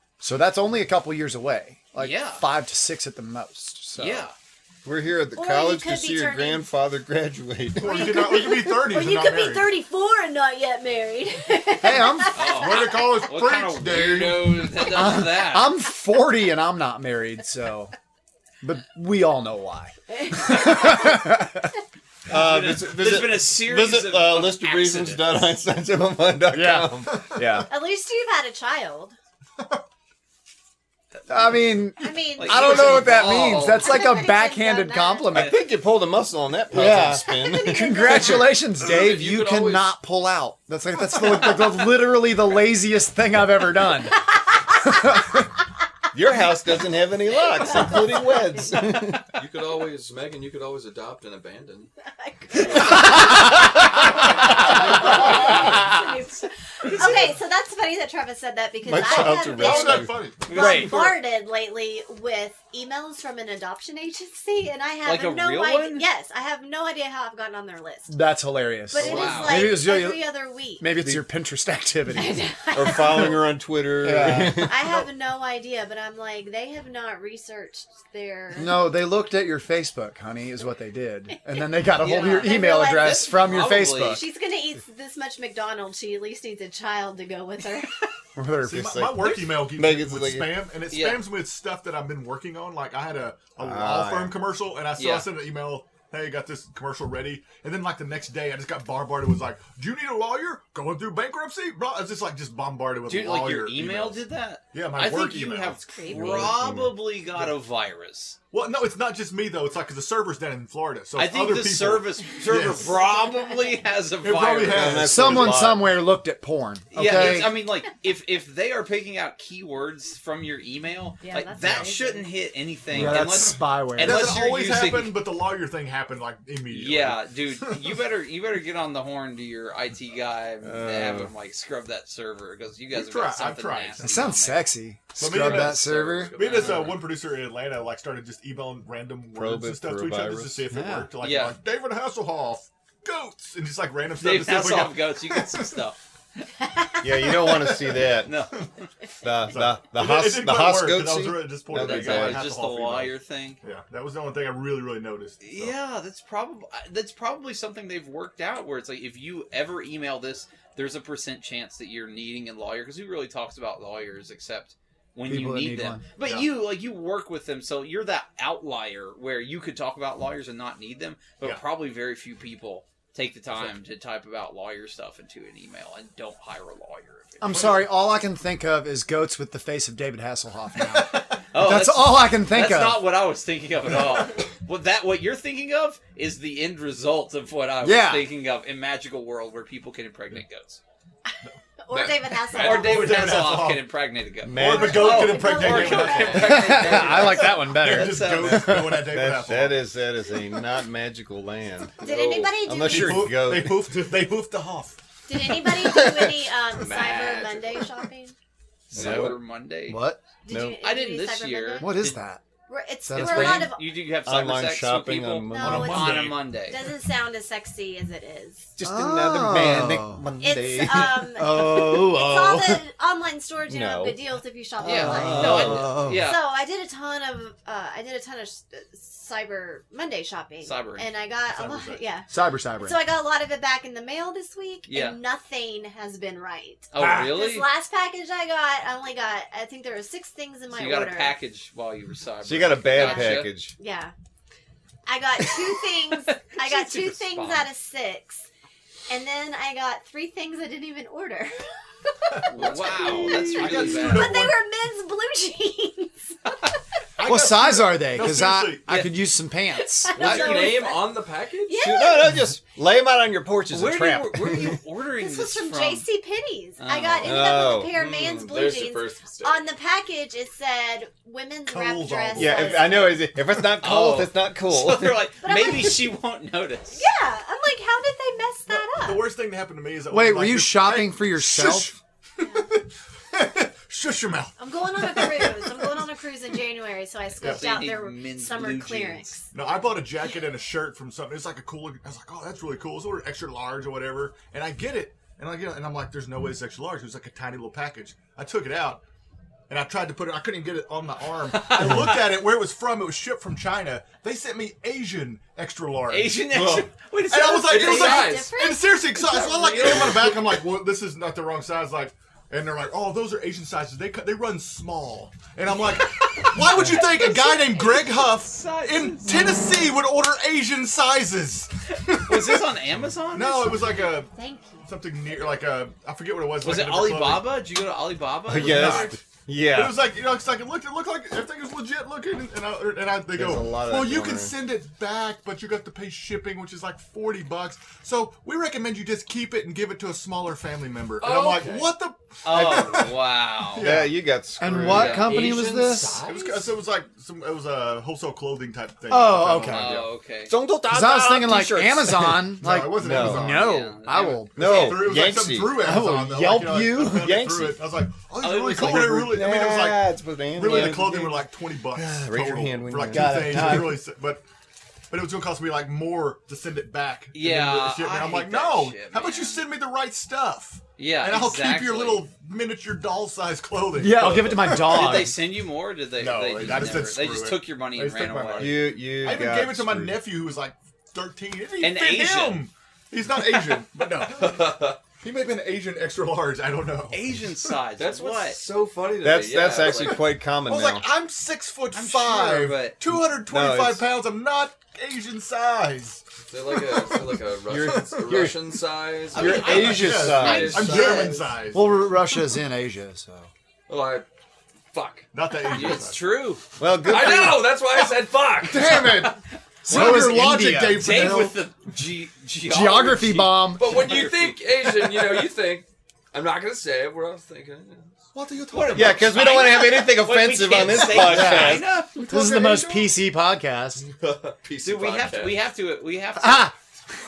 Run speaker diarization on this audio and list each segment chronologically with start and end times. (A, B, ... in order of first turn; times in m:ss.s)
0:00.2-0:04.3 A
0:02.0-0:02.4 B
0:04.0-0:04.3 B
0:04.8-0:08.1 C
0:05.3-0:06.7 D
0:07.8-0:09.7 E
0:07.8-0:13.1 D
0:11.8-0:12.4 A
0:12.3-0:15.8 B
0:12.5-0:14.7 E
0:14.8-0:17.9 A
0:18.6-0:21.7 A
0:20.1-0:21.2 D
0:22.3-0:27.7 C
0:22.3-0:25.6 B
0:26.5-0:27.6 A
0:27.7-0:29.2 D
0:31.3-0:35.6 A
0:32.0-0:35.5 D
0:32.4-0:33.9 B
0:35.3-0:38.4 C
0:36.7-0:45.4 A
0:37.2-0:38.6 D
0:38.7-0:39.9 F
0:46.1-0:49.2 C
0:47.3-0:48.9 D
0:49.3-0:51.9 F
0:52.1-1:08.2 D
0:52.5-0:53.4 F
0:52.8-0:53.4 A
0:56.8-0:57.3 B
0:58.8-1:00.3 C
0:59.1-1:00.7 E
1:00.4-1:01.1 B
1:00.5-1:01.0 A
1:05.0-1:06.1 B
1:08.1-1:12.4 A
1:08.9-1:10.9 D
1:09.0-1:09.7 B
1:11.0-1:11.2 C
1:12.1-1:13.4 D
1:12.7-1:14.9 C
1:14.0-1:14.8 A
1:14.5-1:18.8 D
1:18.5-1:24.2 A
1:22.0-1:28.1 D
1:22.0-1:24.2 B
1:28.4-1:29.1 A
1:28.6-1:45.8 E
1:28.8-1:30.6 C
1:30.9-1:31.2 B
1:33.6-1:34.4 C
1:35.0-1:35.3 B
1:43.1-1:48.4 B
1:45.9-1:46.5 D
1:46.1-1:46.9 C
1:48.5-1:53.0 E
1:51.2-1:55.0 B
1:53.0-1:53.8 D
1:54.2-1:55.6 E
1:54.7-1:55.9 C
1:54.8-1:57.5 A
1:56.9-2:05.2 B
2:01.2-2:02.3 D
2:02.9-2:04.3 A
2:03.0-2:03.3 E
2:04.0-2:07.8 E
2:06.7-2:14.6 B
2:10.6-2:11.3 C
2:12.9-2:14.3 E
2:14.0-2:16.4 A
2:15.2-2:25.7 E
2:15.2-2:17.0 F
2:16.4-2:17.0 B
2:19.3-2:20.7 C
2:20.7-2:21.1 A
2:21.2-2:21.6 B
2:24.2-2:26.0 B
2:26.6-2:27.5 D
2:27.0-2:28.4 C
2:28.2-2:28.6 B
2:29.2-2:32.5 C
2:29.5-2:35.7 E
2:31.7-2:33.6 B
2:35.4-2:57.8 B
2:45.3-2:46.0 A
2:46.2-2:46.5 E
2:57.4-3:03.0 A
3:01.4-3:10.8 B
3:07.8-3:08.3 A
3:11.8-3:13.4 D
3:11.9-3:12.8 F
3:12.5-3:18.7 B
3:12.5-3:13.9 E
3:14.4-3:15.4 C
3:14.5-3:19.8 E
3:14.7-3:16.9 D
3:16.3-3:19.0 A
3:18.5-3:24.0 C
3:22.0-3:23.3 D
3:22.8-3:25.0 E
3:25.3-3:28.3 D
3:25.5-3:26.5 C
3:26.8-3:27.9 F
3:28.9-3:30.0 B
3:28.9-3:29.4 F
3:28.9-3:29.3 C
3:29.9-3:30.2 A
3:30.4-3:32.0 D
3:30.5-3:30.8 C
3:30.8-3:32.2 B
3:31.8-3:32.4 A
3:32.7-3:33.9 D
3:33.0-3:33.7 A
3:33.1-3:36.9 B
3:34.2-3:36.2 C
3:35.5-3:38.7 D
3:35.6-3:36.4 E
3:38.8-3:41.4 C
3:38.8-3:40.2 A
3:40.4-4:01.4 D
3:41.2-3:42.8 A
3:43.7-3:44.3 C
3:44.8-3:46.0 C
3:44.8-3:46.4 B
3:45.1-3:46.2 A
3:50.6-3:51.1 B
3:51.4-3:52.1 E
3:52.3-3:53.0 A
3:54.9-3:55.2 B
3:56.9-3:57.7 B
4:00.7-4:03.5 B
4:02.4-4:03.7 C
4:02.9-4:04.1 D
4:05.0-4:08.4 D
4:06.3-4:07.7 B
4:09.1-4:16.1 D
4:12.3-4:14.6 E
4:12.5-4:14.4 B
4:17.2-4:19.0 E
4:17.2-4:20.4 A
4:18.9-4:19.1 B
4:19.8-4:22.5 D
4:20.1-4:21.8 F
4:21.7-4:24.8 C
4:23.7-4:26.0 B
4:25.1-4:33.0 D
4:26.8-4:27.5 B
4:27.2-4:28.0 C
4:27.8-4:29.6 F
4:31.6-4:33.2 E
4:32.3-4:35.3 C
4:33.8-4:37.0 B
4:35.4-4:36.0 D
4:36.9-4:39.3 D
4:38.7-4:46.0 E
4:40.1-4:41.9 A
4:42.4-4:42.7 D
4:44.6-4:49.5 D
4:47.4-4:49.4 B
4:47.4-4:47.8 E
4:49.5-4:59.0 E
4:59.7-5:22.7 E
5:01.5-5:02.2 B
5:06.1-5:08.4 B
5:07.7-5:08.5 F
5:07.7-5:09.2 D
5:09.2-5:10.4 B
5:16.7-5:19.4 B
5:22.1-5:23.9 B
5:23.3-5:24.3 E
5:23.7-5:24.9 D
5:24.8-5:27.6 E
5:26.6-5:29.2 B
5:28.4-5:30.0 C
5:28.5-5:29.1 E
5:29.7-5:44.2 E
5:33.3-5:34.6 C
5:41.2-5:41.9 F
5:42.4-5:43.9 B
5:43.8-5:45.3 C
5:44.6-5:46.2 A
5:44.9-5:45.3 B
5:44.9-5:46.7 F
5:46.2-5:50.1 E
5:49.1-5:50.0 A
5:49.7-5:50.5 B
5:50.4-5:53.5 C
5:50.9-5:54.6 A
5:52.6-5:53.8 E
5:53.3-5:55.1 B
5:54.5-5:55.8 C
5:54.6-6:04.4 E
5:55.8-5:57.4 A
5:57.0-5:57.8 C
5:58.4-5:59.3 B
5:58.7-6:04.0 C
6:03.1-6:04.0 A
6:05.1-6:15.3 E
6:07.3-6:09.6 B
6:11.0-6:12.2 B
6:13.9-6:15.4 A
6:14.6-6:18.8 B
6:16.2-6:27.7 E
6:18.6-6:20.2 C
6:21.8-6:22.7 B
6:24.3-6:25.0 F
6:27.1-6:28.6 B
6:28.0-6:30.3 F
6:29.2-6:31.1 C
6:30.1-6:36.2 E
6:31.9-6:33.0 B
6:33.1-6:34.1 C
6:36.5-6:41.4 F
6:36.7-6:38.2 E
6:37.7-6:38.6 C
6:39.3-6:41.2 C
6:39.3-6:41.4 B
6:39.6-6:42.1 E
6:41.6-6:43.5 A
6:43.9-6:44.3 F
6:44.9-6:45.3 F
6:45.3-6:46.2 E
6:45.7-6:46.6 B
6:46.8-6:47.8 C
6:47.0-6:49.0 F
6:48.7-6:49.3 E
6:48.7-6:49.3 A
6:49.8-6:51.4 A
6:49.8-6:51.6 E
6:49.9-6:50.3 B
6:50.9-6:54.5 B
6:52.7-6:53.9 A
6:53.8-6:58.2 F
6:58.3-6:59.5 E
6:58.7-7:02.2 B
6:58.9-7:02.0 C
7:01.1-7:04.0 A
7:02.2-7:03.0 E
7:04.0-7:05.6 F
7:04.8-7:06.7 B
7:06.4-7:06.7 A